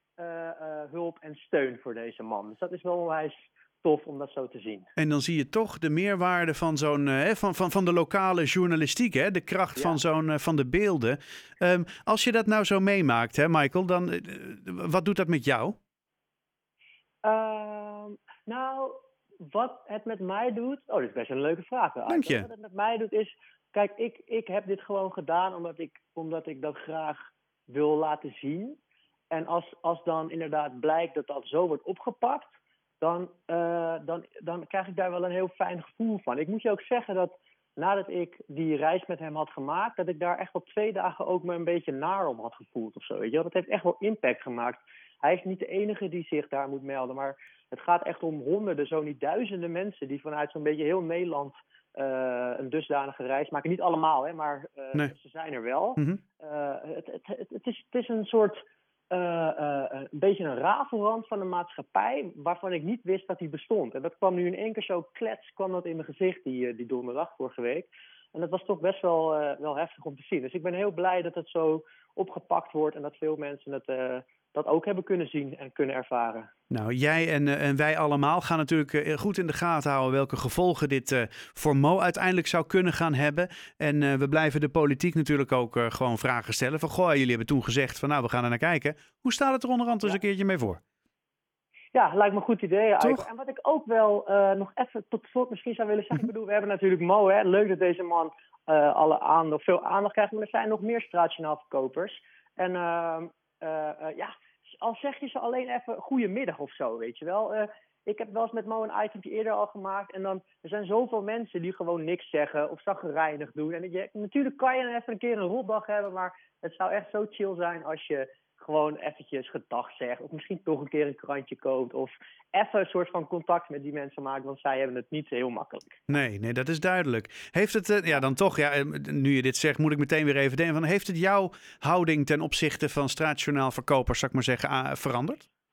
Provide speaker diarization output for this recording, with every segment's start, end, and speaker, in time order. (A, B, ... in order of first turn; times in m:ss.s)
0:00.2-0:04.9 A
0:05.0-0:15.8 B
0:17.2-0:28.8 A
0:22.1-0:22.4 B
0:29.3-1:16.5 A
1:16.7-1:30.8 B
1:31.9-2:06.1 A
1:33.0-1:33.2 B
2:06.1-2:15.5 B